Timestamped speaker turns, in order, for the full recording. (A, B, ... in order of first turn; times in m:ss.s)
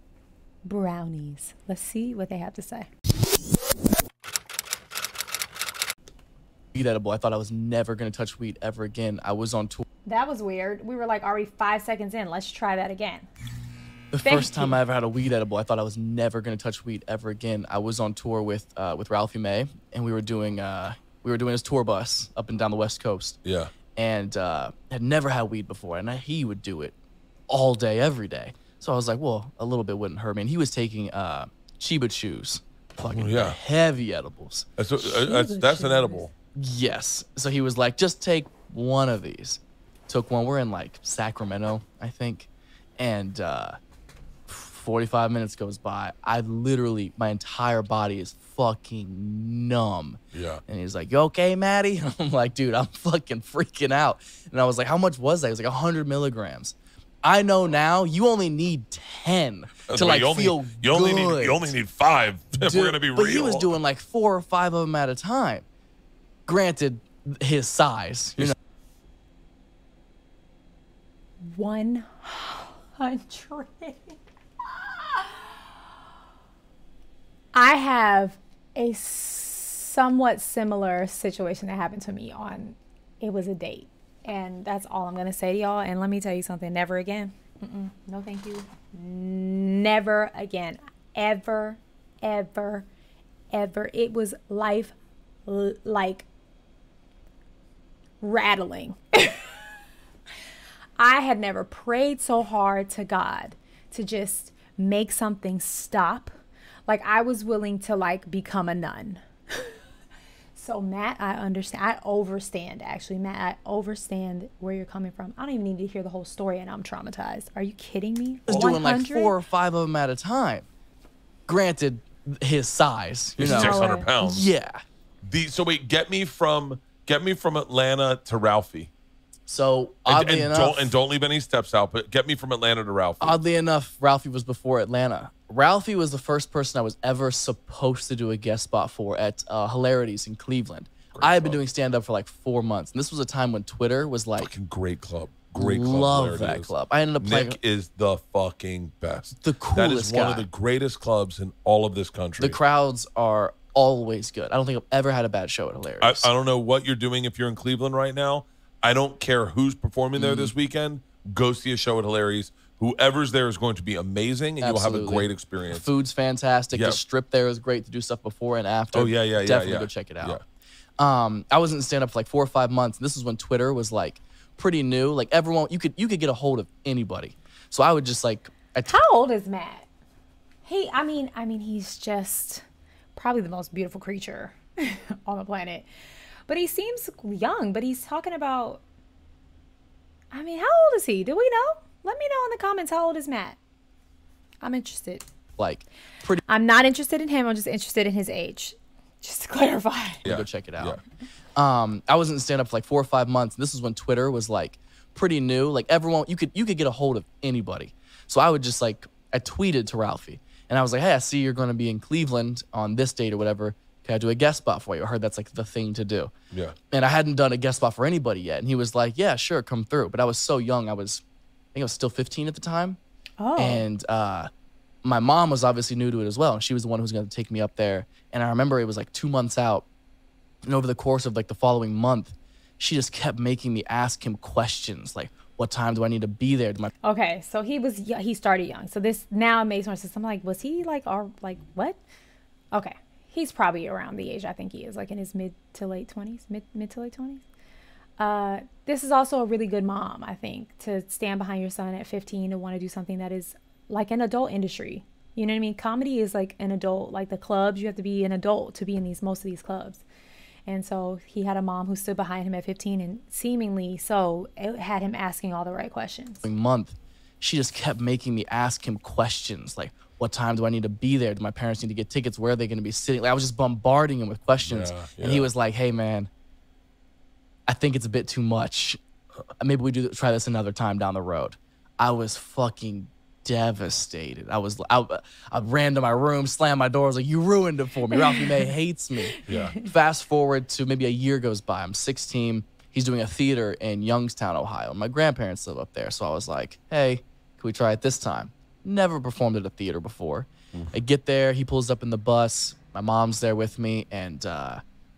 0:00.6-0:02.9 A
0:06.7-0:09.8 B
0:10.0-0:13.3 A
0:14.1-0:23.4 B
0:14.2-0:14.8 A
0:23.4-0:23.7 C
0:24.0-0:27.0 B
0:27.5-0:34.7 B
0:33.1-0:33.6 C
0:34.8-0:36.3 C
0:35.0-0:36.3 A
0:36.6-0:43.8 B
0:44.5-1:01.7 B
0:50.3-0:50.6 C
0:59.9-1:03.7 C
1:02.6-1:05.7 B
1:06.5-1:08.6 B
1:11.4-1:14.2 A
1:14.7-1:15.4 A
1:17.5-1:32.9 A
1:33.5-1:34.9 A
1:35.4-1:36.2 A
1:38.2-1:39.5 A
1:41.0-1:46.3 A
1:46.9-1:49.7 A
1:50.6-1:59.3 A
1:58.5-2:00.7 B
2:01.5-2:04.8 B
2:03.4-2:04.5 C
2:03.5-2:04.1 A
2:05.2-2:08.9 C
2:09.5-2:10.9 B
2:10.1-2:13.4 C
2:13.2-2:24.5 B
2:21.1-2:21.6 C
2:24.4-2:32.6 C
2:25.6-2:27.6 B
2:29.4-2:30.5 B
2:32.4-2:36.3 B
2:36.0-2:45.9 C
2:40.2-2:40.5 B
2:44.6-2:50.4 B
2:46.7-2:47.0 C
2:48.9-2:50.4 C
2:51.0-2:59.0 B
2:58.9-2:59.9 A
3:00.6-3:02.6 A
3:03.2-3:05.9 A
3:06.5-3:08.8 A
3:10.3-3:13.6 A
3:14.6-3:15.3 A
3:15.6-3:16.4 B
3:16.5-3:20.2 A
3:20.2-3:21.0 B
3:20.2-3:21.0 C
3:21.6-3:36.3 B
3:36.5-3:36.8 C
3:36.9-3:41.2 B
3:41.7-3:43.0 B
3:43.4-3:43.9 A
3:43.6-3:44.5 B
3:45.0-3:49.9 B
3:50.6-3:56.9 B
3:57.0-4:02.0 A
4:02.7-4:07.4 A
4:08.2-4:20.0 A
4:20.7-4:26.4 A
4:26.4-4:36.3 B
4:34.6-4:35.5 C
4:37.7-4:39.0 B
4:39.6-5:04.8 B
4:49.5-4:49.8 C
4:49.5-4:49.8 A